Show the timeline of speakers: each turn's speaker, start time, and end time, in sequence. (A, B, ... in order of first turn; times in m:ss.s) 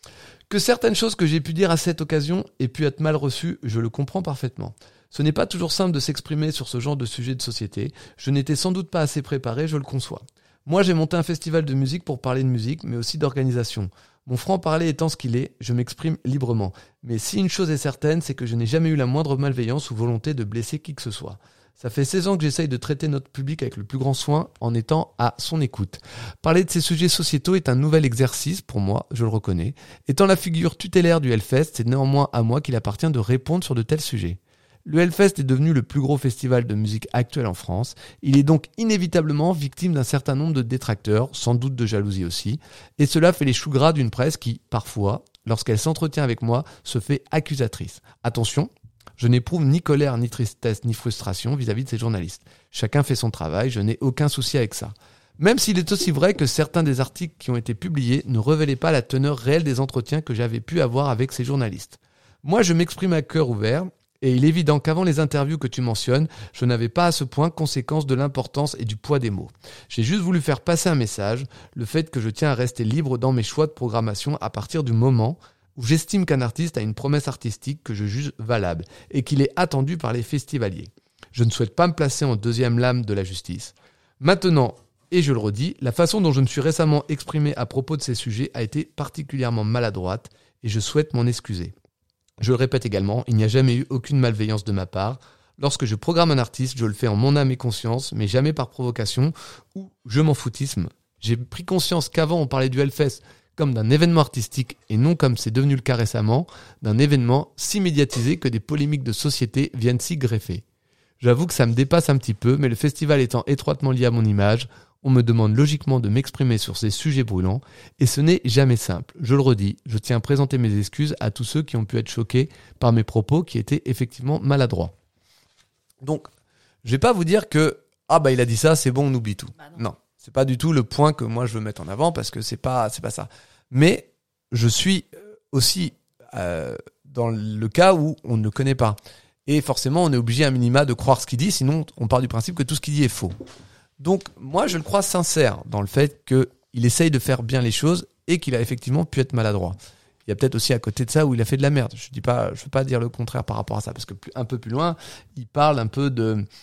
0:00.5-1:31.7 A
1:32.4-1:50.6 A
1:51.2-2:04.9 A
2:06.0-2:06.3 A
2:06.8-2:23.3 A
2:24.0-2:36.4 A